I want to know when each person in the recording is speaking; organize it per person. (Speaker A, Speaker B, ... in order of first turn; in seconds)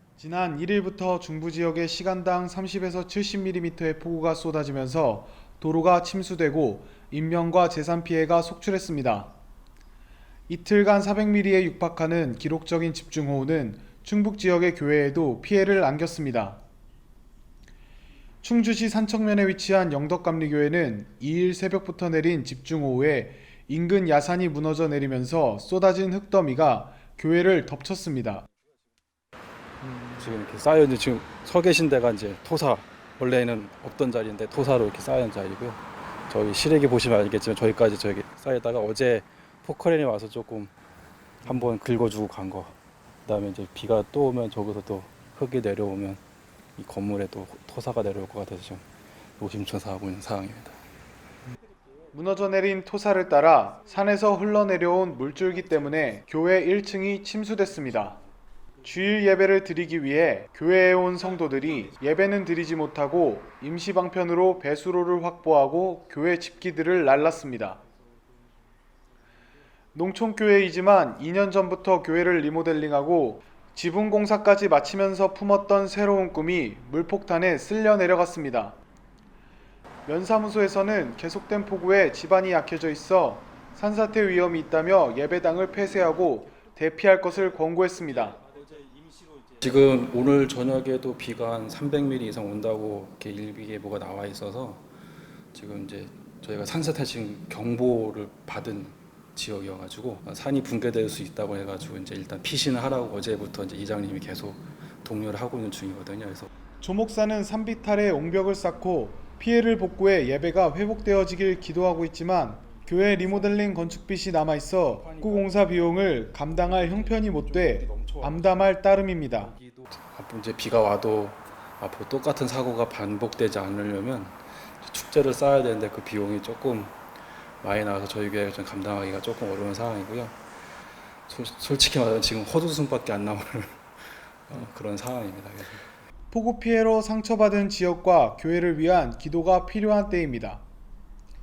Speaker A: 0.2-9.3, 10.5-16.6, 18.4-28.4, 52.1-58.2, 58.8-67.8, 69.9-78.8, 80.0-88.4, 106.8-119.5, 136.3-140.6
Speaker B: 30.1-40.7, 41.4-42.7, 43.2-46.2, 46.8-48.8, 49.4-50.8, 89.6-94.8, 95.5-106.5, 112.7-113.7, 114.8-118.8, 119.3-127.0, 127.6-130.4, 131.3-133.8, 134.5-135.8